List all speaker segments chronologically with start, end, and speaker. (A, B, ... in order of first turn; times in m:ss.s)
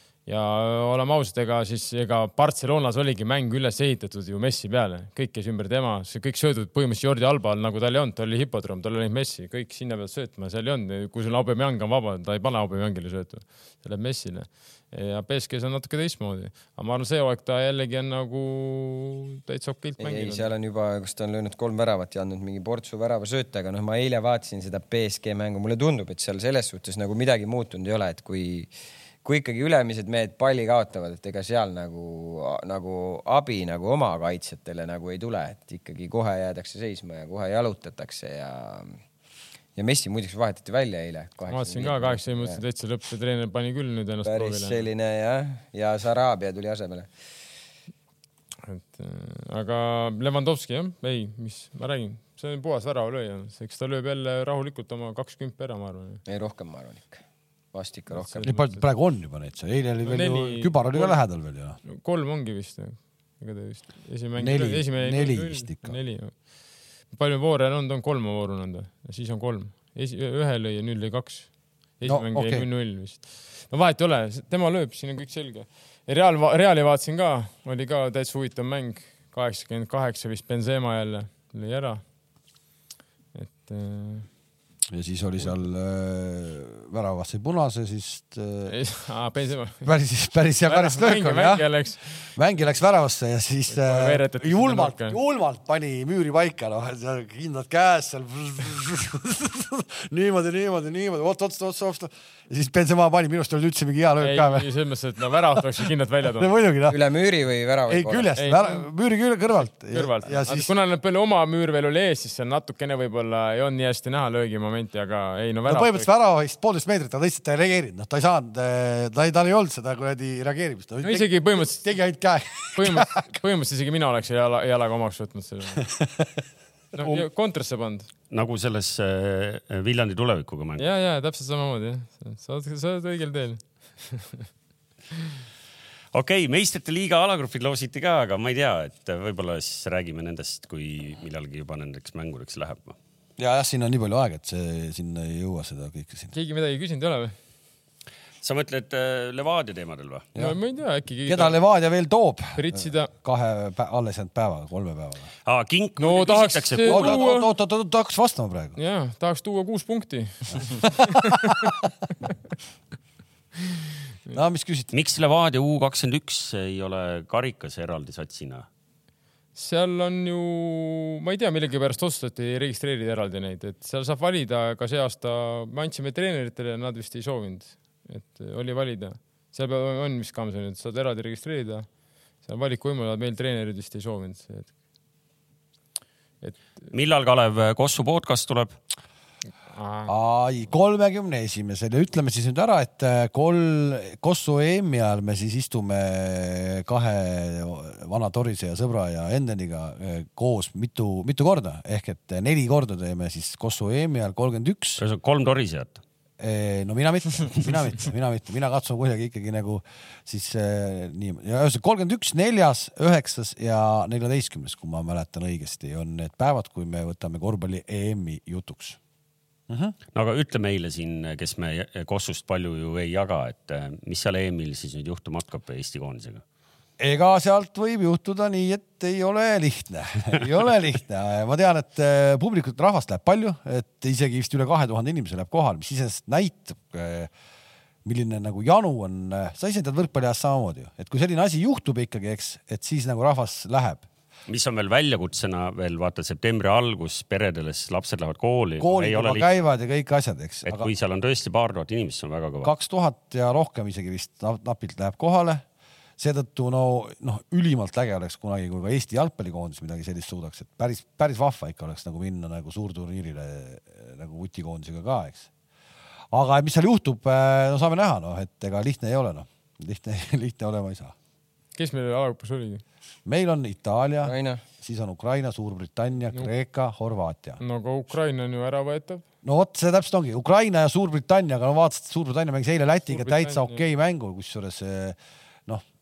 0:00.2-0:20.5 A
0:20.0-0:28.7 B
0:29.2-0:39.0 B
0:39.8-0:42.6 B
0:41.5-0:44.8 A
0:44.2-0:47.1 B
0:48.6-0:56.2 A
0:56.3-0:57.2 B
0:57.7-0:58.5 B
0:58.1-0:58.8 A
0:58.4-1:01.8 C
1:00.0-1:01.2 A
1:01.8-1:06.3 A
1:04.4-1:06.0 C
1:07.1-1:11.5 A
1:12.0-1:22.0 A
1:12.0-1:12.6 C
1:23.3-1:24.3 A
1:24.9-1:28.8 C
1:28.7-1:29.8 A
1:29.8-1:31.7 C
1:30.7-1:32.0 A
1:32.3-1:44.7 C
1:33.7-1:35.2 A
1:44.2-1:46.5 A
1:46.3-1:47.0 C
1:46.9-1:48.3 B
1:47.9-1:50.7 C
1:48.4-1:48.8 A
1:49.9-1:56.1 A
1:55.7-2:03.2 C
2:01.0-2:01.8 A
2:02.8-2:05.8 A
2:05.8-2:06.3 C
2:06.9-2:08.1 A
2:07.0-2:07.2 C
2:08.3-2:10.9 D
2:10.8-2:14.4 A
2:16.1-2:23.0 D
2:23.4-2:26.3 C
2:26.3-2:27.3 A
2:28.4-2:30.3 D
2:30.4-2:31.6 A
2:31.2-2:35.3 C
2:32.6-2:33.1 A
2:35.4-2:37.2 D
2:36.0-2:37.5 A
2:36.8-2:38.8 C
2:38.8-2:41.7 A
2:40.5-2:41.7 C
2:44.3-2:44.9 C
2:44.9-2:48.7 D
2:49.5-3:01.9 A
3:02.4-3:04.7 A
3:06.9-3:08.8 D
3:09.7-3:10.1 A
3:10.1-3:25.0 C
3:25.0-3:26.0 D
3:26.4-3:39.0 C
3:39.7-3:40.0 C
3:40.1-3:46.4 D
3:47.0-3:57.3 C
3:58.0-4:04.0 C
4:04.5-4:09.5 D
4:08.8-4:10.9 C
4:10.6-4:12.7 D
4:12.6-4:15.6 C
4:16.2-4:25.5 C
4:26.3-4:31.1 C
4:31.8-4:32.8 A
4:33.2-4:37.6 C
4:34.2-4:34.6 B
4:37.6-4:39.2 A
4:39.4-4:45.2 C
4:43.0-4:43.8 A